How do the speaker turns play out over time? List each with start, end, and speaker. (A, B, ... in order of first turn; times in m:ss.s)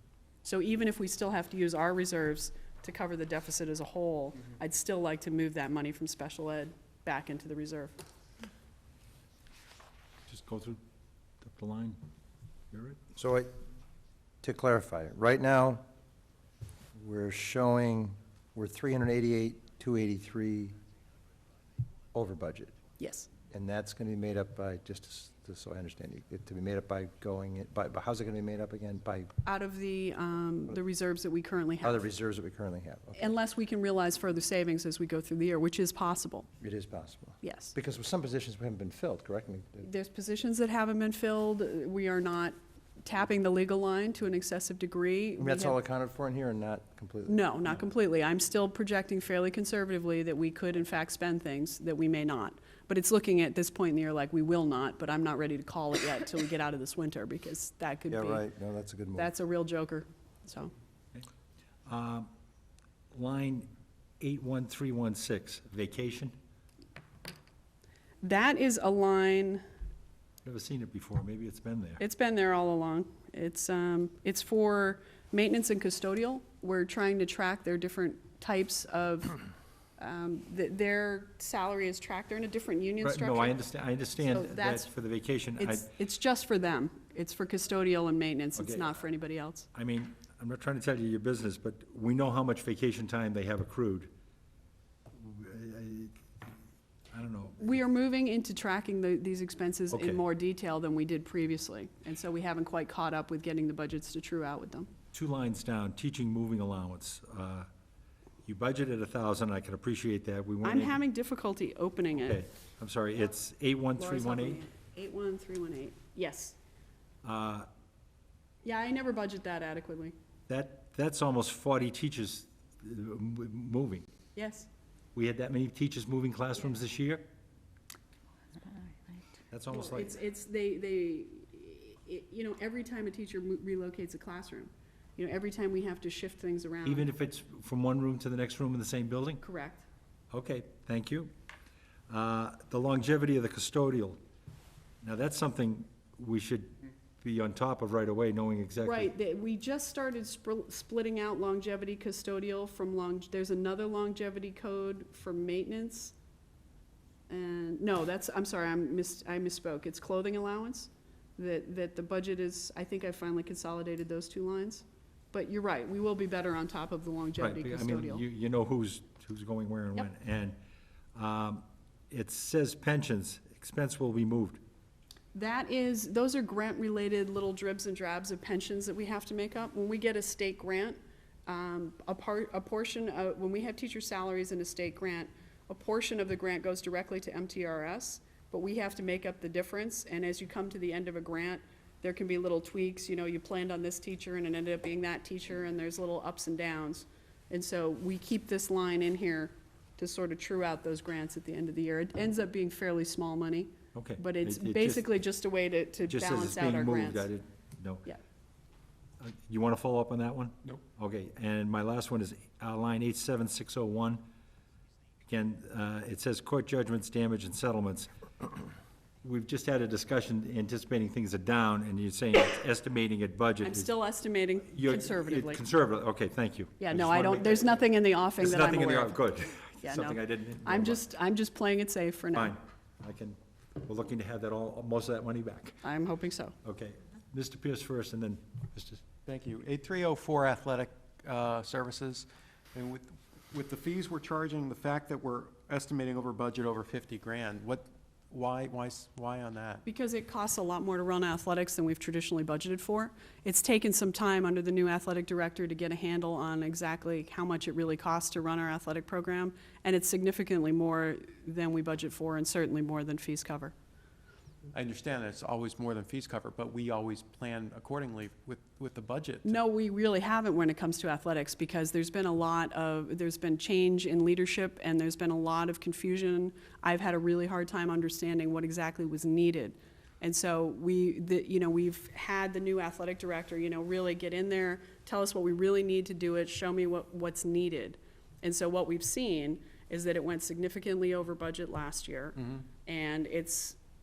0:00.4-0:07.9 A
0:10.3-0:10.8 B
0:11.4-0:12.0 B
0:12.7-0:13.0 B
0:13.2-0:13.5 C
0:14.4-0:15.8 C
0:16.9-0:20.8 C
0:22.1-0:22.7 C
0:23.0-0:23.3 A
0:23.5-0:29.3 C
0:29.5-0:32.0 A
0:31.8-0:33.3 C
0:33.2-0:36.5 A
0:36.6-0:39.9 C
0:37.4-0:37.7 A
0:39.8-0:45.8 A
0:45.4-0:47.8 C
0:47.3-0:58.4 A
0:58.1-0:59.3 C
0:59.2-1:00.7 A
1:01.9-1:02.3 B
1:03.1-1:03.7 B
1:04.2-1:06.4 B
1:08.2-1:09.6 A
1:10.4-1:12.0 B
1:12.0-1:19.4 A
1:20.0-1:23.6 A
1:23.0-1:25.9 B
1:24.2-1:24.9 A
1:25.6-1:29.7 A
1:28.6-1:28.9 B
1:29.7-1:34.1 B
1:35.1-1:36.5 B
1:37.1-1:37.7 B
1:37.6-1:44.9 A
1:39.9-1:40.2 B
1:45.1-1:47.7 B
1:48.4-1:51.0 B
1:50.6-1:52.4 A
1:52.2-1:54.6 B
1:54.0-1:56.6 A
1:57.2-1:57.7 B
1:58.6-2:00.1 A
2:00.5-2:04.1 B
2:04.4-2:04.7 A
2:05.2-2:07.3 B
2:09.5-2:10.1 B
2:09.7-2:17.1 A
2:16.8-2:19.4 B
2:19.4-2:19.8 A
2:20.3-2:21.3 B
2:22.1-2:24.2 B
2:25.0-2:29.1 B
2:28.8-2:36.2 A
2:37.3-2:48.2 A
2:47.4-2:50.6 B
2:51.2-2:54.6 B
2:55.3-3:27.3 A
3:23.9-3:25.1 B
3:26.1-3:28.1 B
3:29.2-3:34.2 B
3:35.3-3:38.6 B
3:39.2-3:43.9 B
3:43.6-3:45.6 A
3:44.7-3:47.8 B
3:46.8-3:49.2 A
3:48.4-3:51.0 B
3:49.8-3:52.6 A
3:52.3-3:55.8 B
3:55.8-3:56.6 A
3:56.6-3:59.1 B
3:59.3-4:09.8 D
4:09.8-4:23.7 A
4:24.7-4:29.6 D
4:29.4-4:53.8 A